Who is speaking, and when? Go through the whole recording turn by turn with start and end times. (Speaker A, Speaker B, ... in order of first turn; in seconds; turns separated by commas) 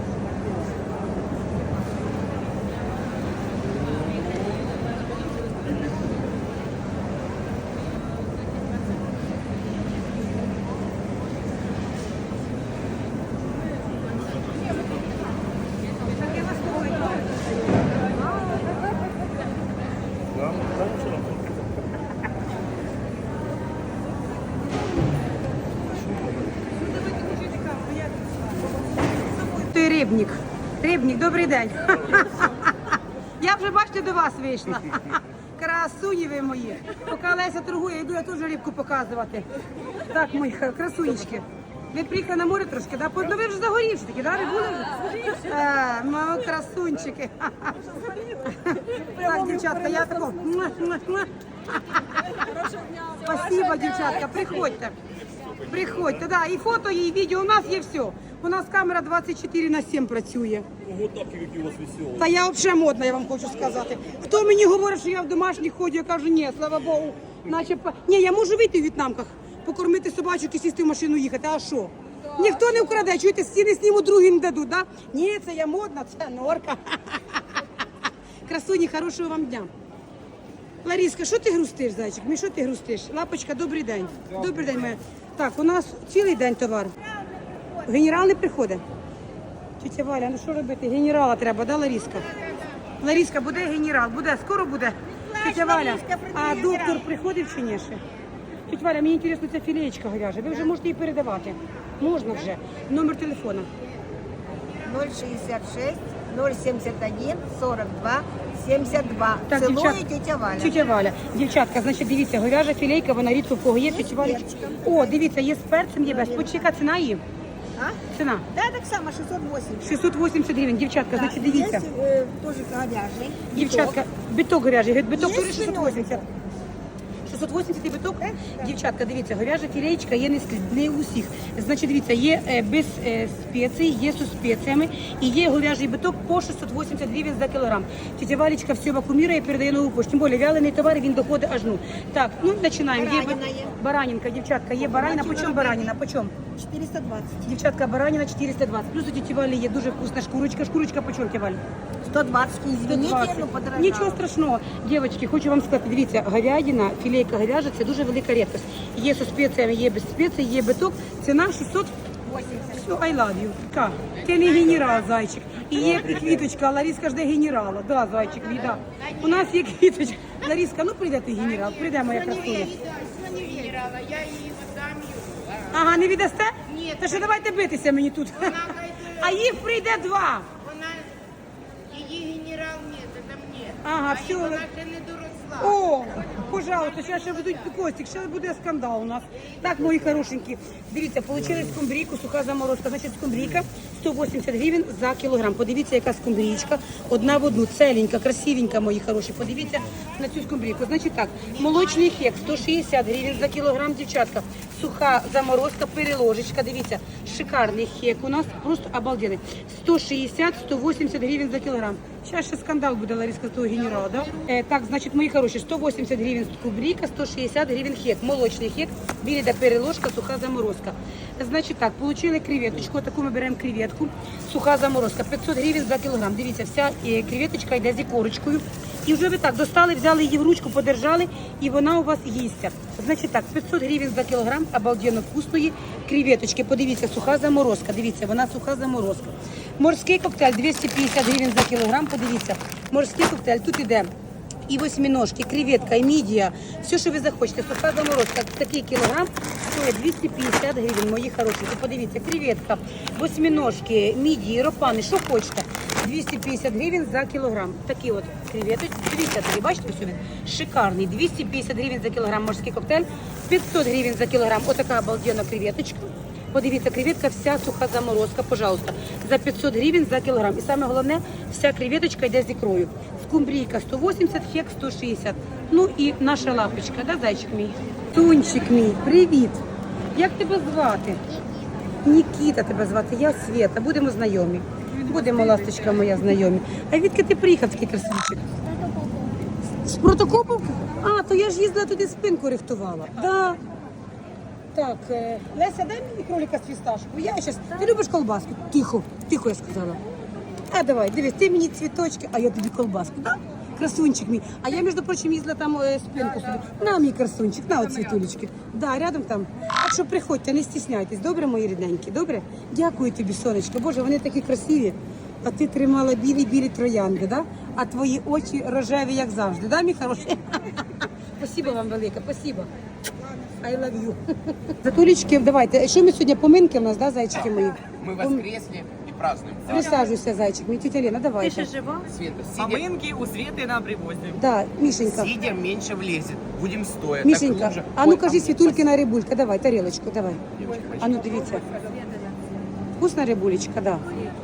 Speaker A: 16.0-17.3, Speaker B: 20.6-21.1, Speaker A: 26.7-32.7, Speaker A: 33.4-39.5, Speaker A: 40.1-52.4, Speaker C: 48.9-50.4, Speaker C: 52.3-54.7, Speaker A: 53.2-54.9, Speaker D: 55.4-56.2, Speaker A: 55.7-60.7, Speaker D: 60.9-62.2, Speaker A: 62.2-77.6, Speaker A: 78.5-79.7, Speaker A: 80.8-87.0, Speaker E: 87.1-87.9, Speaker A: 87.9-88.8, Speaker A: 89.8-92.3, Speaker A: 93.0-98.0, Speaker E: 95.1-97.1, Speaker A: 98.7-103.7, Speaker E: 104.9-110.8, Speaker A: 109.5-110.0, Speaker A: 110.6-117.2, Speaker E: 113.8-115.2, Speaker E: 116.0-116.5, Speaker A: 118.1-118.5, Speaker E: 118.5-120.0, Speaker A: 119.8-121.9, Speaker E: 121.1-124.0, Speaker A: 123.5-126.2, Speaker E: 125.2-126.2, Speaker A: 127.3-146.3, Speaker E: 128.2-128.7, Speaker E: 142.9-143.7, Speaker E: 144.8-145.9, Speaker E: 146.6-147.4, Speaker A: 147.4-151.6, Speaker E: 152.1-154.2, Speaker A: 152.8-161.9, Speaker E: 162.3-162.7, Speaker A: 162.6-172.7, Speaker F: 164.4-165.0, Speaker B: 165.8-166.3, Speaker F: 168.4-169.5, Speaker F: 171.4-175.9, Speaker A: 175.7-180.5, Speaker F: 176.7-177.4, Speaker F: 178.4-179.4, Speaker F: 180.6-181.1, Speaker F: 181.9-187.7, Speaker A: 183.8-184.7, Speaker A: 185.6-244.1, Speaker F: 213.7-214.5, Speaker A: 244.7-279.6, Speaker A: 280.1-281.2, Speaker A: 282.0-288.4, Speaker A: 289.9-293.6, Speaker A: 294.7-300.0, Speaker A: 300.7-322.7, Speaker A: 323.6-328.4, Speaker B: 327.3-330.1, Speaker A: 329.7-331.7, Speaker C: 331.4-331.9, Speaker B: 332.0-332.9, Speaker C: 332.6-334.4, Speaker A: 334.4-335.3, Speaker B: 335.1-338.9, Speaker A: 337.2-340.4, Speaker B: 340.6-341.2, Speaker C: 340.6-341.9, Speaker A: 341.0-341.6, Speaker A: 343.0-344.1